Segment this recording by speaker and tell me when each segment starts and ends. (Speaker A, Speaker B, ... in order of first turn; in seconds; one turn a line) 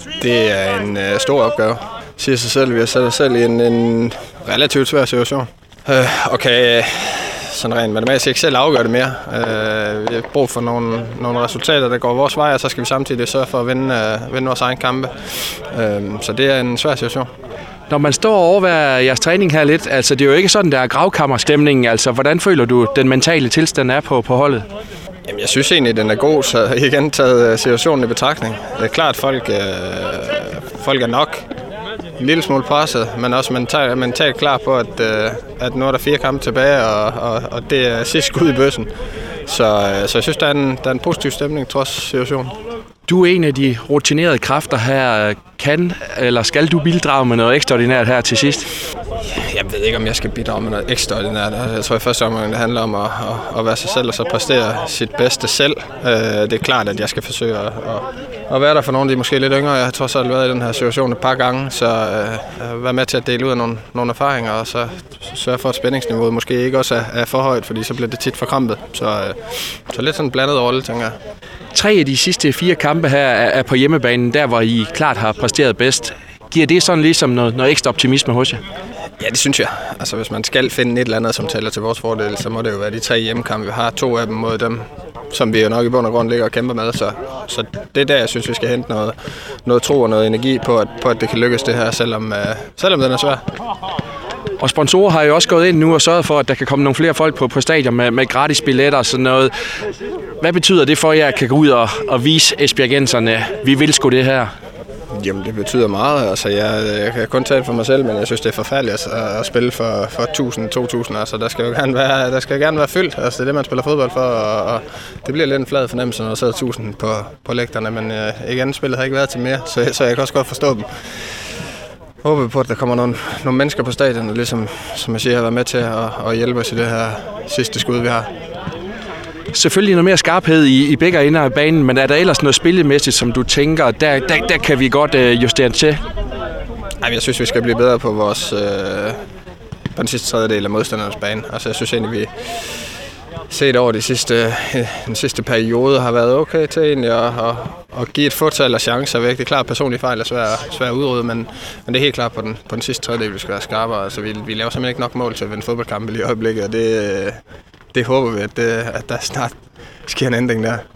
Speaker A: 0.2-17.3
Speaker B: 17.9-24.6
Speaker A: 25.3-31.5
Speaker A: 32.2-38.9
Speaker A: 39.5-42.5
Speaker B: 43.1-48.7
Speaker A: 49.3-71.2
Speaker B: 71.7-78.6
Speaker A: 79.2-93.4
Speaker B: 94.6-99.5
Speaker B: 100.4-104.5
Speaker A: 105.1-121.3
Speaker A: 122.2-128.3
Speaker B: 129.5-136.0
Speaker A: 137.0-139.2
Speaker A: 139.9-142.8
Speaker A: 143.5-157.4
Speaker A: 157.9-160.8